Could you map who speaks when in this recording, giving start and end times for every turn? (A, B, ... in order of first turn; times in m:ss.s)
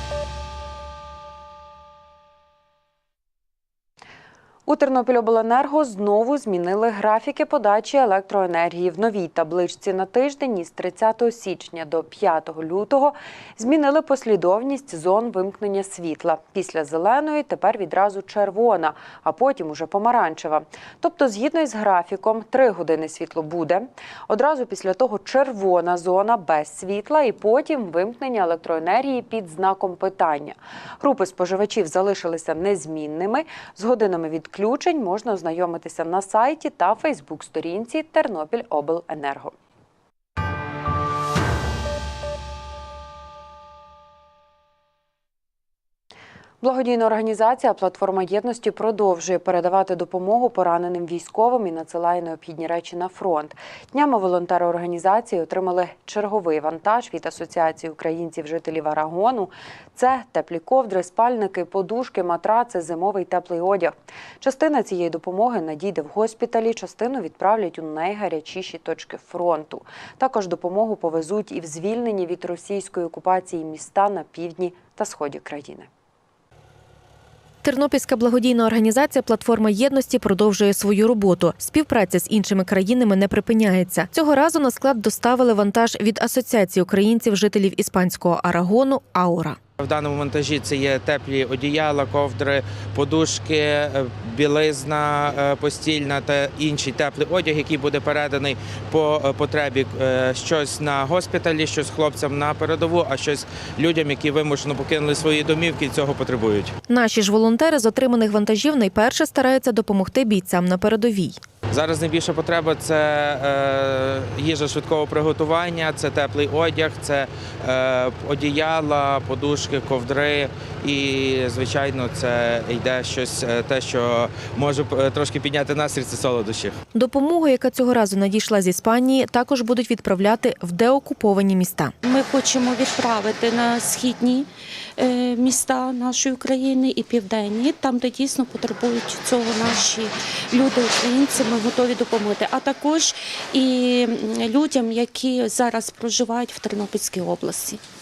0:04.7-0:39.5 A
0:46.6-1:15.9 A
1:17.6-1:29.6 B
1:29.8-1:46.8 C
1:46.9-1:51.4 B
1:51.7-2:06.8 C
2:06.9-2:11.9 B
2:12.0-2:14.5 D
2:15.0-2:27.8 D